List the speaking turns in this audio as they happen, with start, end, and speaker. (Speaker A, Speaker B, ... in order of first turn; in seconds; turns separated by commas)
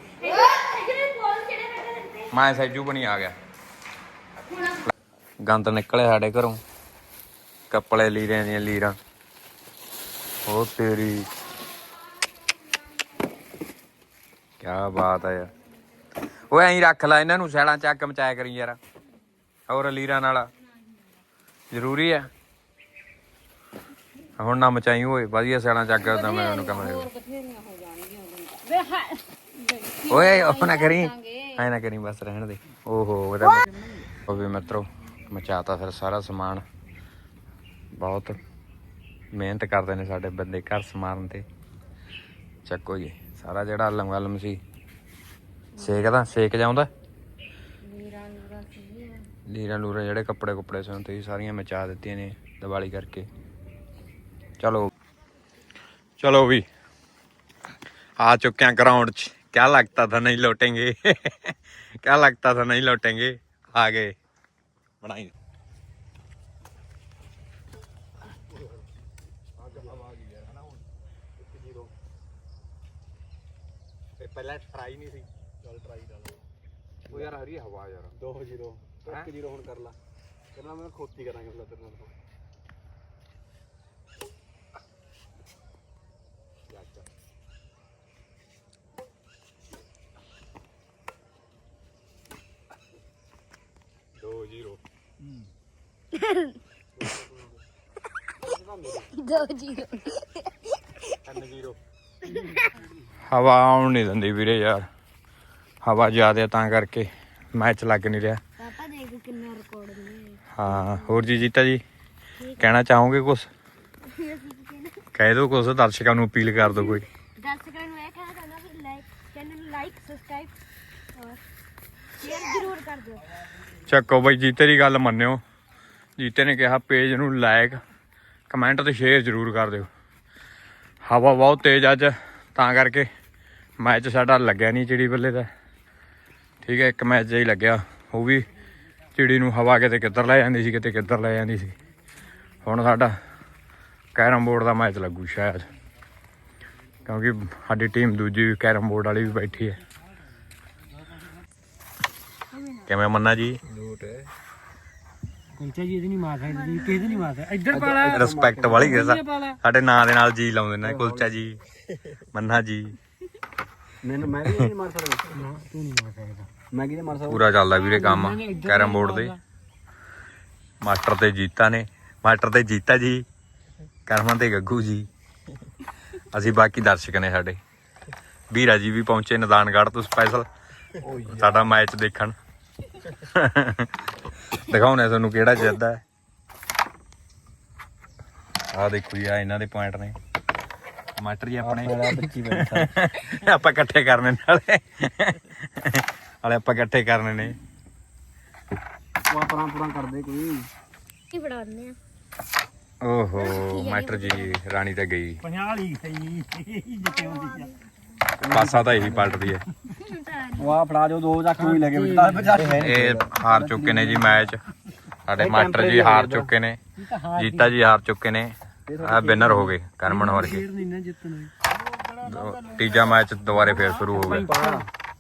Speaker A: 0.2-2.3, Speaker B: 2.3-3.4, Speaker B: 5.4-6.6, Speaker B: 7.7-9.0, Speaker B: 10.5-11.3, Speaker B: 14.6-15.5, Speaker B: 16.5-18.8, Speaker B: 19.7-20.5, Speaker B: 21.7-22.3, Speaker B: 24.4-27.1, Speaker C: 26.0-31.6, Speaker B: 30.1-36.6, Speaker B: 38.0-38.4, Speaker B: 39.3-41.5, Speaker B: 42.6-44.6, Speaker B: 45.8-46.9, Speaker C: 47.8-49.3, Speaker B: 49.5-53.3, Speaker B: 54.6-54.9, Speaker B: 56.2-56.6, Speaker B: 58.2-64.1, Speaker B: 65.0-65.3, Speaker D: 71.5-71.9, Speaker B: 74.2-75.3, Speaker D: 75.7-76.2, Speaker B: 77.1-78.2, Speaker D: 78.2-80.0, Speaker D: 80.5-82.1, Speaker B: 86.7-87.0, Speaker B: 94.3-94.8, Speaker A: 96.2-96.5, Speaker D: 98.6-99.1, Speaker A: 99.0-100.4, Speaker A: 102.3-102.6, Speaker B: 103.3-104.9, Speaker B: 105.8-108.4, Speaker A: 108.6-111.3, Speaker B: 110.5-111.8, Speaker A: 112.4-112.7, Speaker B: 112.6-113.5, Speaker A: 114.0-115.0, Speaker B: 115.1-117.1, Speaker A: 116.6-120.5, Speaker A: 122.2-123.3, Speaker B: 123.9-125.4, Speaker B: 126.2-127.8, Speaker B: 128.5-129.9, Speaker B: 131.1-133.1, Speaker B: 133.8-135.5, Speaker B: 136.6-138.5, Speaker B: 139.2-141.8, Speaker B: 142.6-143.2, Speaker B: 144.2-145.7, Speaker B: 147.1-149.8, Speaker B: 152.9-153.6, Speaker D: 153.8-154.1, Speaker E: 155.6-157.8, Speaker A: 156.4-157.4, Speaker D: 157.6-159.0, Speaker B: 157.9-161.6, Speaker D: 160.8-161.3, Speaker B: 162.3-163.0, Speaker D: 164.0-165.5, Speaker E: 165.5-166.5, Speaker D: 166.6-167.4, Speaker B: 167.3-169.4, Speaker E: 168.2-168.7, Speaker B: 170.8-173.2, Speaker B: 174.1-175.1, Speaker B: 176.3-177.6, Speaker B: 178.5-180.5, Speaker B: 181.1-182.4, Speaker B: 183.2-183.9, Speaker B: 184.5-186.0, Speaker B: 188.7-190.2, Speaker B: 191.2-197.6, Speaker D: 191.6-192.9, Speaker D: 199.3-200.7, Speaker A: 201.3-201.9, Speaker B: 203.0-205.5, Speaker C: 203.5-204.4, Speaker E: 205.5-207.6, Speaker A: 207.0-207.8, Speaker D: 208.4-209.3, Speaker B: 208.5-209.7, Speaker A: 210.0-210.7, Speaker D: 210.6-214.3, Speaker B: 212.6-214.6, Speaker B: 215.2-220.8, Speaker D: 215.4-216.5, Speaker D: 218.9-219.7, Speaker D: 220.7-221.5, Speaker B: 222.1-224.5, Speaker D: 224.1-224.9